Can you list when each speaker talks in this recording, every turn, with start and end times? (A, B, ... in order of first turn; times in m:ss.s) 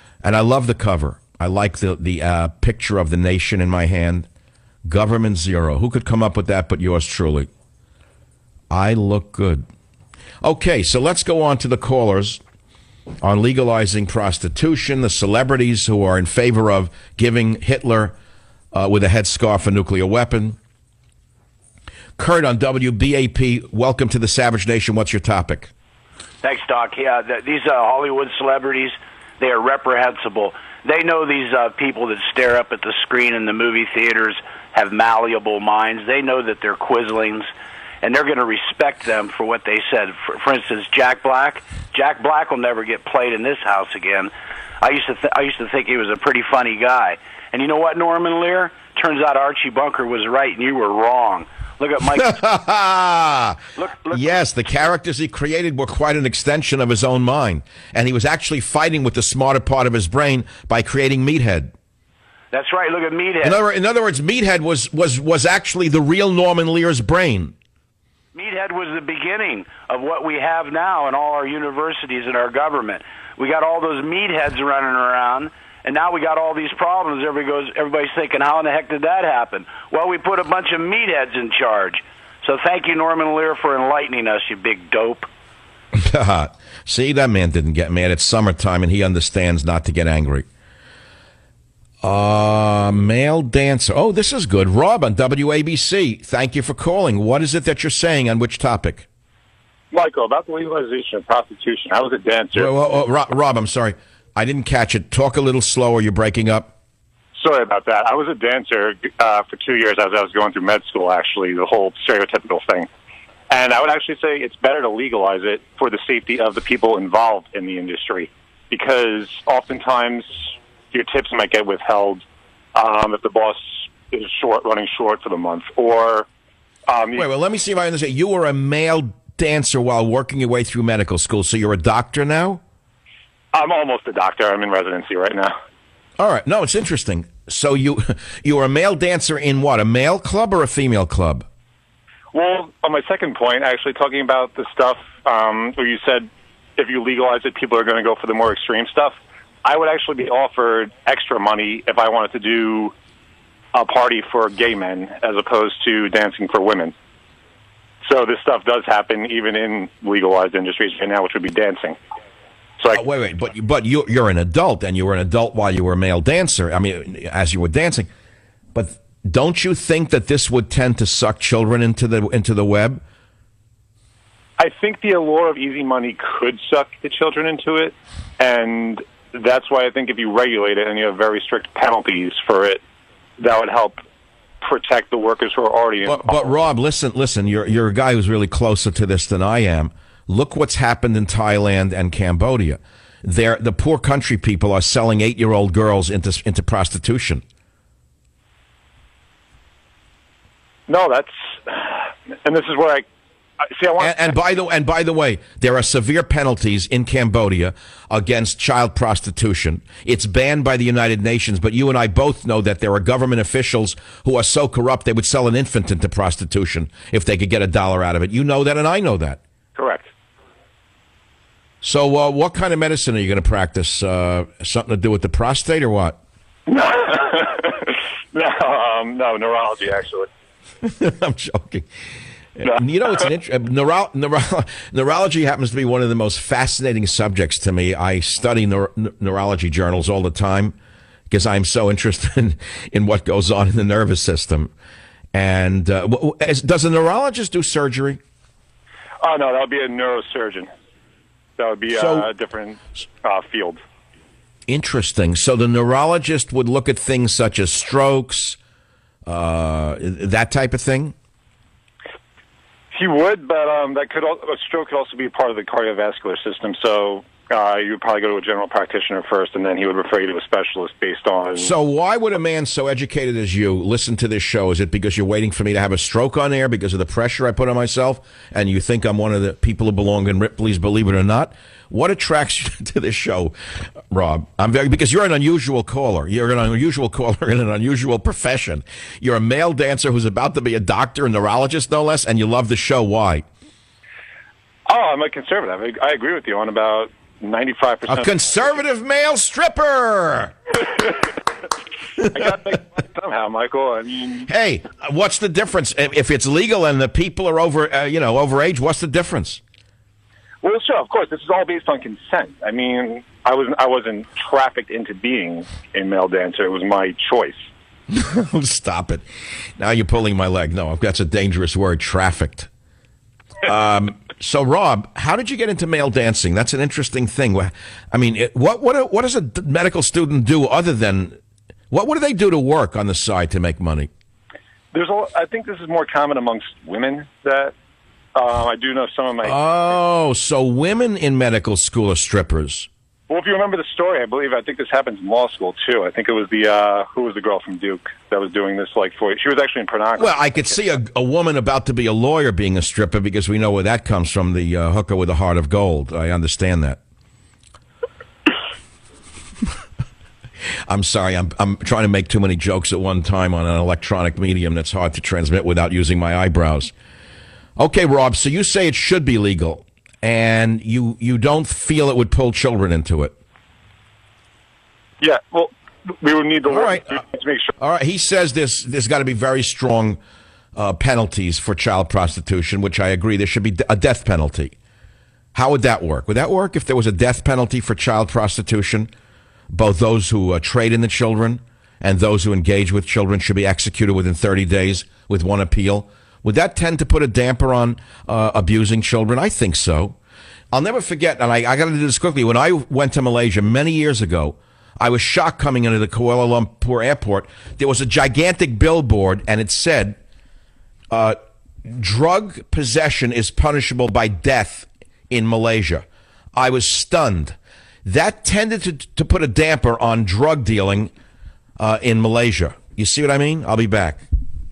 0:00.2-0:04.3 A
0:04.8-0:07.5 A
0:08.7-0:09.6 A
0:10.4-0:12.4 A
0:13.2-0:18.1 A
0:18.7-0:20.6 A
0:22.2-0:25.7 A
0:26.4-0:37.5 B
0:38.0-0:52.3 B
0:52.0-0:53.6 A
0:53.8-0:54.3 B
0:54.1-1:01.7 A
1:02.5-1:03.6 B
1:03.4-1:07.5 A
1:08.3-1:25.3 B
1:25.9-1:30.4 A
1:32.0-1:39.1 A
1:39.9-1:42.7 C
1:42.5-1:46.7 A
1:47.3-1:52.9 C
1:53.5-2:02.2 C
2:02.7-2:06.2 C
2:06.9-2:07.3 C
2:07.2-2:12.6 A
2:13.5-2:15.5 C
2:16.2-2:21.4 A
2:22.3-2:32.9 C
2:33.7-2:36.9 C
2:38.0-2:42.0 C
2:42.9-2:48.1 A
2:48.7-2:53.0 A
2:54.6-3:02.8 C
3:03.4-3:04.0 C
3:04.6-3:06.6 C
3:06.0-3:17.4 A
3:20.9-3:23.0 C
3:23.7-3:24.4 C
3:24.0-3:39.4 A
3:39.8-3:40.1 C
3:41.8-3:46.2 A
3:46.7-3:50.3 C
3:50.8-3:51.8 A
3:52.6-4:00.7 A
4:01.3-4:04.7 A
4:05.3-4:08.2 A
4:09.2-4:10.7 C
4:11.6-4:13.8 C
4:11.9-4:12.3 A
4:14.7-4:18.6 A
4:19.3-4:21.1 A
4:22.9-4:31.7 C
4:31.6-4:43.5 A
4:44.1-4:53.4 A
4:54.9-4:58.7 C
4:58.1-5:00.5 A
5:02.3-5:04.5 C
5:04.5-5:09.6 A
5:10.6-5:17.7 C
5:18.1-5:19.2 A
5:19.8-5:22.7 A
5:23.6-5:31.4 A
5:31.9-5:34.1 A
5:34.9-5:37.7 C
5:38.3-5:40.0 C
5:39.4-5:42.9 A
5:43.3-5:50.4 C
5:50.2-5:57.0 A
6:00.9-6:06.9 A
6:07.8-6:13.3 A
6:15.2-6:17.7 C
6:16.7-6:17.2 A
6:17.8-6:20.2 A
6:20.8-6:24.7 A
6:25.5-6:29.1 A
6:29.7-6:40.2 A
6:40.7-6:50.2 A
6:51.1-7:01.1 A
7:01.8-7:04.2 A